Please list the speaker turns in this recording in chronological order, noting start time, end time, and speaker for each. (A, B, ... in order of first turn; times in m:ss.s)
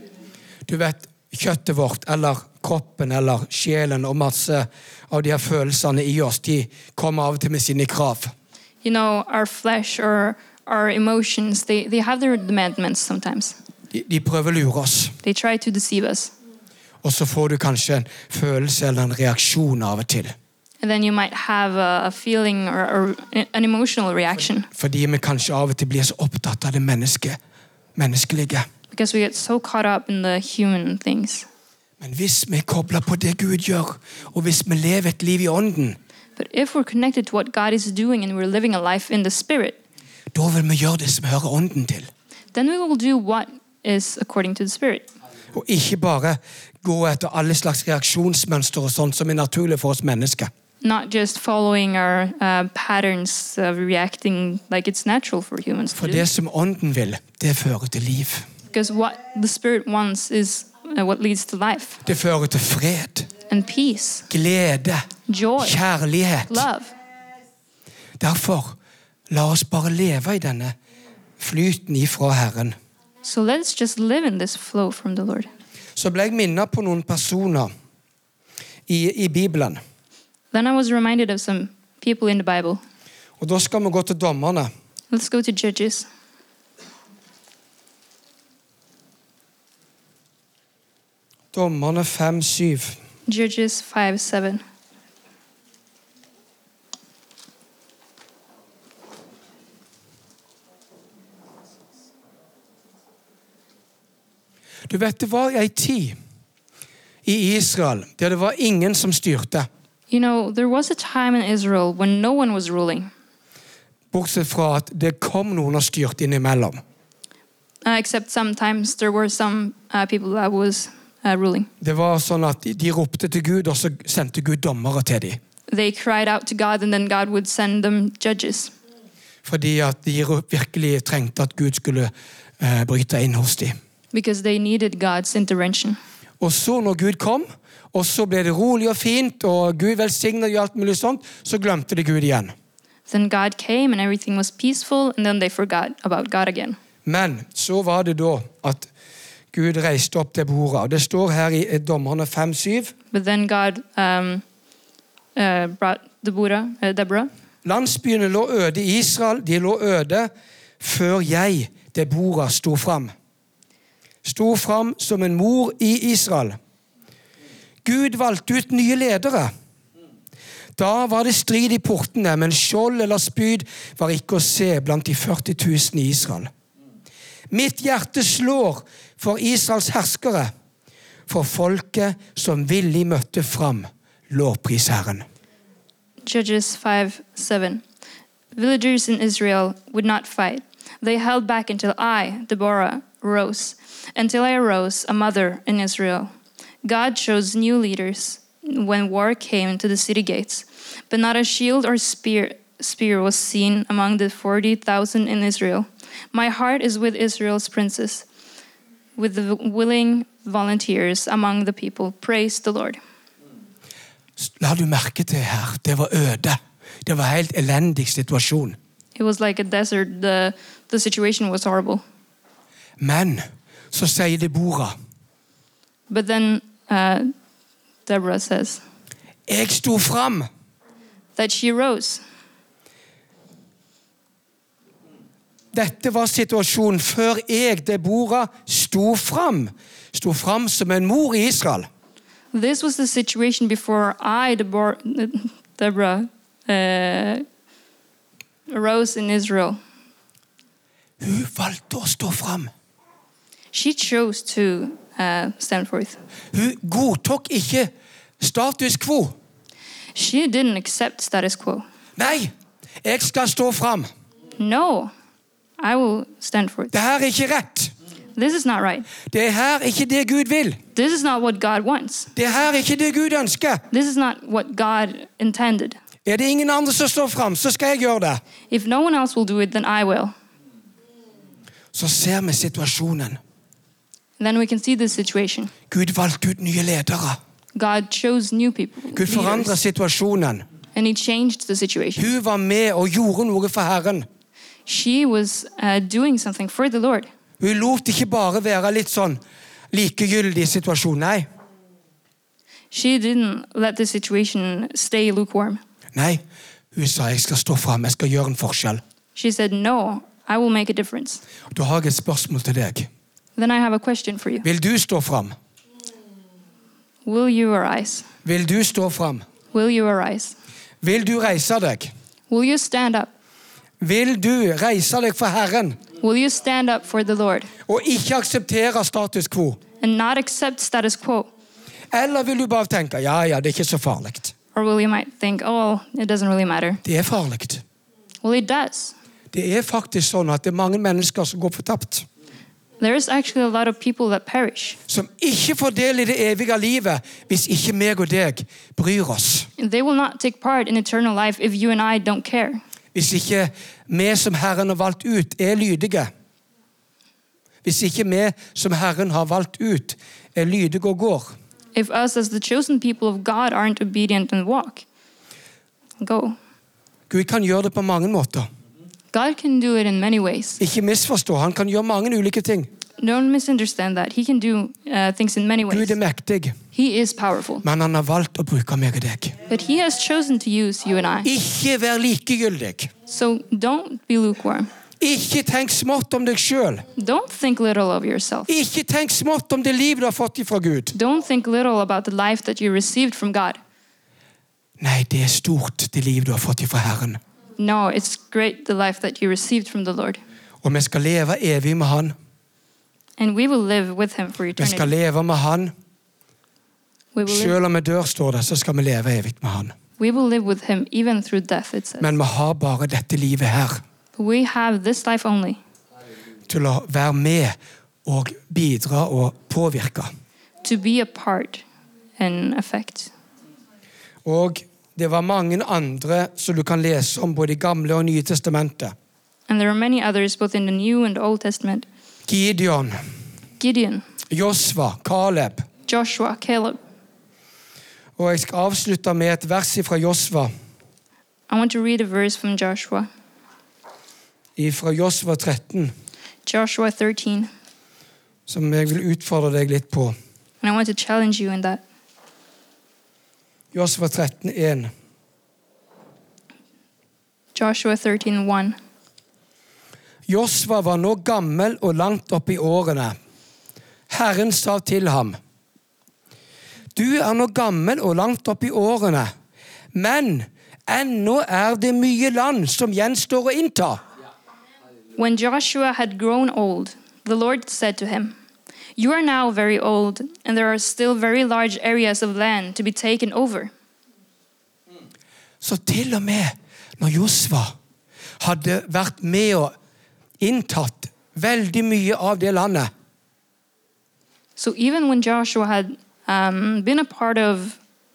0:00.7-0:08.3 A
0:08.8-0:13.6 B
0:13.9-0:15.2 A
0:15.2-0:16.3 B
0:17.0-0:20.3 A
0:20.8-0:24.7 B
0:24.7-0:27.4 A
0:28.0-0:28.7 A
0:28.9-0:31.4 B
0:32.0-0:36.0 A
0:36.4-0:39.8 B
0:40.3-0:42.1 A
0:42.5-0:45.1 B
0:45.5-0:50.5 A
0:50.8-0:56.3 B
0:56.0-0:58.5 A
0:58.7-1:02.0 B
1:02.0-1:03.3 A
1:03.5-1:04.3 B
1:04.3-1:05.0 A
1:05.3-1:05.8 B
1:05.6-1:06.6 A
1:06.5-1:06.9 B
1:08.2-1:08.8 A
1:09.3-1:10.7 A
1:11.4-1:12.8 A
1:13.2-1:15.5 B
1:16.0-1:17.7 A
1:18.9-1:19.8 A
1:20.5-1:22.8 B
1:23.4-1:24.7 A
1:25.1-1:26.1 B
1:31.5-1:33.0 A
1:33.3-1:34.6 B
1:44.9-1:46.2 A
1:47.2-1:49.7 A
1:50.1-1:53.1 B
1:54.1-1:56.8 A
1:57.8-2:01.7 B
2:01.8-2:05.4 A
2:05.7-2:08.7 B
2:09.4-2:13.7 A
2:14.1-2:16.0 B
2:16.4-2:22.5 A
2:23.1-2:26.8 B
2:27.0-2:28.9 A
2:29.5-2:32.9 A
2:33.1-2:34.4 B
2:35.4-2:37.3 B
2:37.6-2:43.1 A
2:44.2-2:46.6 A
2:47.8-2:49.5 A
2:50.8-2:56.5 A
2:57.5-3:00.5 A
3:01.3-3:05.2 A
3:06.2-3:07.8 B
3:08.5-3:16.3 B
3:16.8-3:28.2 B
3:29.2-3:33.0 B
3:34.4-3:38.8 A
3:39.2-3:42.0 B
3:43.0-3:44.9 A
3:46.1-3:47.3 B
3:48.0-3:48.8 B
3:49.5-3:50.5 A
3:51.4-3:52.2 B
3:55.7-4:01.9 A
4:02.5-4:07.4 B
4:08.7-4:09.8 B
4:11.2-4:12.7 A
4:13.7-4:16.2 B
4:16.5-4:19.3 A
4:20.1-4:21.8 B
4:22.2-4:22.5 A
4:23.0-4:24.1 A
4:24.6-4:25.1 B
4:25.8-4:26.9 B
4:26.9-4:27.9 A
4:28.4-4:29.1 B
4:29.2-4:30.8 A
4:30.9-4:32.3 B
4:32.3-4:33.8 A
4:33.9-4:36.0 B
4:36.2-4:38.4 A
4:38.7-4:40.3 B
4:41.9-4:43.4 A
4:44.4-4:45.7 B
4:45.9-4:47.4 A
4:47.7-4:49.8 B
4:49.2-4:50.6 A
4:50.9-4:52.3 B
4:52.2-4:54.2 A
4:54.9-4:57.3 B
4:57.6-4:59.4 A
4:59.9-5:01.4 A
5:02.9-5:05.8 B
5:06.1-5:06.4 A
5:06.9-5:09.0 A
5:09.3-5:11.4 B
5:11.7-5:13.1 A
5:13.6-5:14.6 B
5:14.6-5:15.6 A
5:17.2-5:18.3 B
5:18.4-5:19.4 A
5:19.7-5:20.5 B
5:21.0-5:22.1 A
5:22.5-5:23.3 B
5:24.0-5:26.0 A
5:26.2-5:27.7 B
5:27.8-5:29.8 A
5:30.0-5:31.5 B
5:32.1-5:34.5 A
5:34.7-5:37.0 B
5:37.0-5:37.8 A
5:38.4-5:39.2 B
5:39.5-5:42.2 A
5:43.0-5:45.0 B
5:45.1-5:49.7 A
5:49.8-5:52.8 B
5:53.1-5:56.3 A
5:57.8-6:01.5 A
6:01.9-6:05.0 B
6:06.2-6:06.6 B
6:07.3-6:08.7 A
6:09.3-6:10.8 B
6:10.8-6:12.9 A
6:13.2-6:16.2 B
6:15.9-6:16.7 A
6:16.9-6:17.8 B
6:17.8-6:19.6 A
6:19.7-6:21.5 B
6:21.4-6:23.1 A
6:23.3-6:24.9 B
6:25.2-6:27.0 A
6:27.2-6:28.7 B
6:28.7-6:31.1 A
6:31.1-6:33.8 B
6:35.0-6:37.4 A
6:37.8-6:40.4 B
6:40.8-6:42.3 A
6:43.4-6:45.1 B
6:44.8-6:45.9 A
6:47.3-6:47.7 B
6:47.4-6:49.9 A
6:50.2-6:52.3 B
6:52.2-6:54.0 A
6:54.4-6:55.8 B
6:56.7-7:00.3 A
7:00.8-7:01.8 B
7:02.4-7:03.3 B
7:04.4-7:09.1 A
7:09.7-7:12.0 B
7:12.5-7:13.2 A
7:13.8-7:14.2 B
7:14.5-7:15.8 A
7:16.1-7:17.0 B
7:18.4-7:20.7 A
7:21.7-7:23.3 B
7:24.8-7:26.1 A
7:26.6-7:27.7 B
7:28.7-7:30.3 A
7:30.8-7:32.0 B
7:33.9-7:35.1 A
7:37.7-7:39.0 B
7:40.5-7:43.3 A
7:44.3-7:45.6 A
7:47.1-7:49.5 A
7:50.1-7:54.2 A
7:55.4-7:58.5 B
7:59.2-8:03.9 B
8:05.8-8:08.0 A
8:08.6-8:09.9 A
8:10.6-8:13.1 A
8:14.8-8:18.0 B